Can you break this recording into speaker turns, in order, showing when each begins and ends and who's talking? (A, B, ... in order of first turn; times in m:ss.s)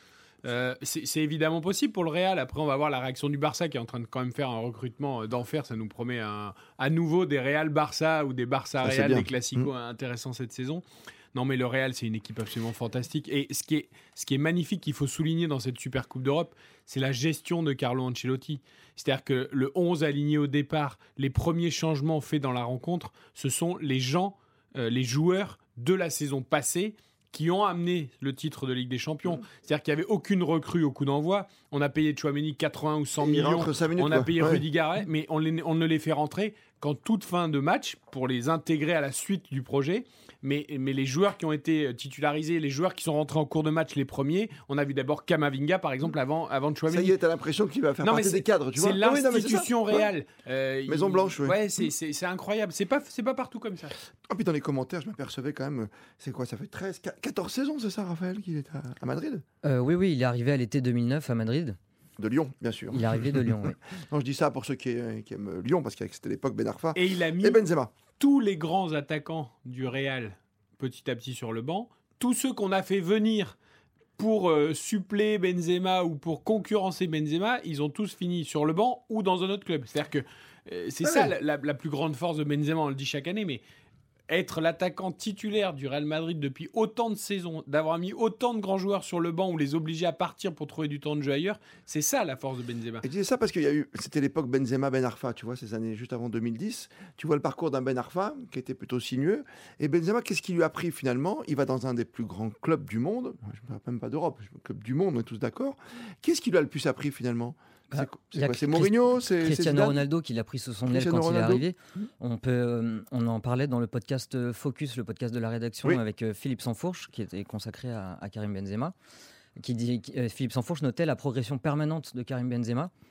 0:00.4-0:47.2 A
0:08.8-0:09.7 B
0:33.2-0:34.6 B
0:46.9-0:50.1 B
0:48.0-0:54.0 A
0:50.9-0:51.6 B
0:54.3-0:59.4 B
0:59.6-1:01.8 C
1:02.2-1:08.0 B
1:02.9-1:03.8 C
1:06.9-1:13.6 A
1:14.2-1:23.6 A
1:21.0-1:21.3 B
1:24.3-1:33.0 A
1:33.0-1:50.0 B
1:47.9-1:58.9 C
1:50.9-1:52.0 B
1:59.6-2:02.9 C